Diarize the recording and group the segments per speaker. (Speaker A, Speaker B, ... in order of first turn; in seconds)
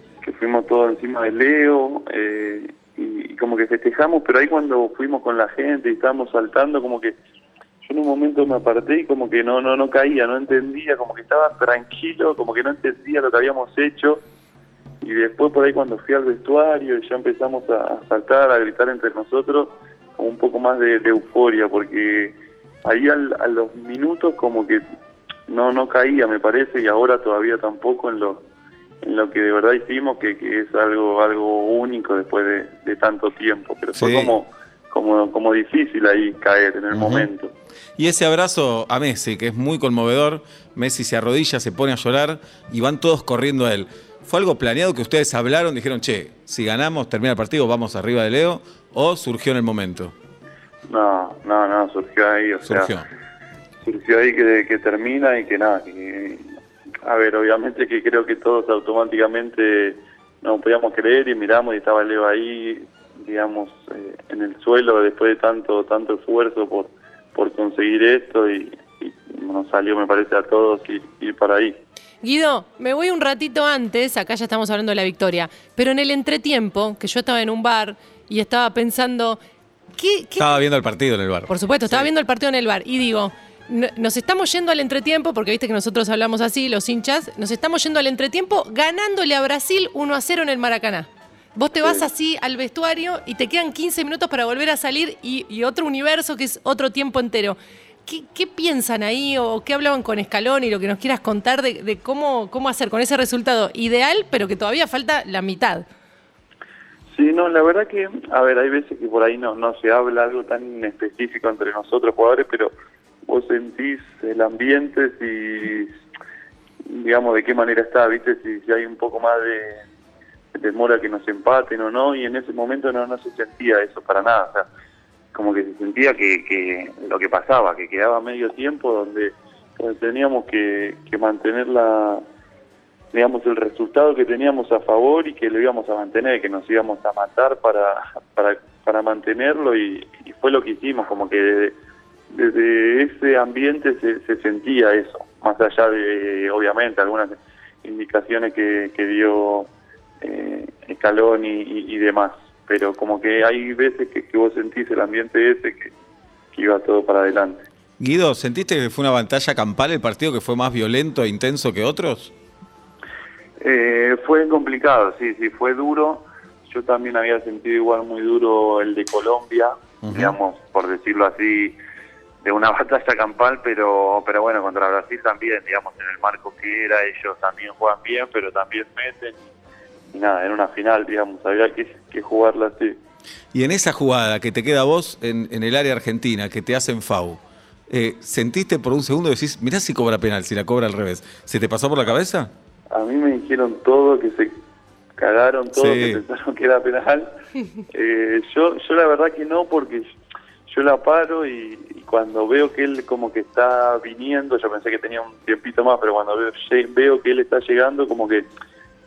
Speaker A: 0.2-7.2, 7.8-14.2, 15.0-24.8, 25.5-28.4, 29.0-37.5, 50.9-53.0, 53.8-56.5, 57.0-71.8, 91.8-92.0, 107.1-112.7, 113.3-115.9, 116.8-119.8, 120.5-124.7, 125.3-132.2, 133.1-141.8, 142.3-149.7, 150.2-155.9, 156.5-157.6, 163.6-171.8, 172.4-179.5, 180.1-183.0, 192.9-194.5, 195.2-197.3, 197.9-200.1, 200.7-208.4
Speaker B: 34.0-34.4, 36.9-37.3, 38.0-50.1, 52.6-53.0, 80.4-82.1, 158.0-162.3, 170.0-170.3, 183.5-192.5, 195.7-196.2
Speaker C: 72.2-79.4, 80.0-80.6, 81.5-105.8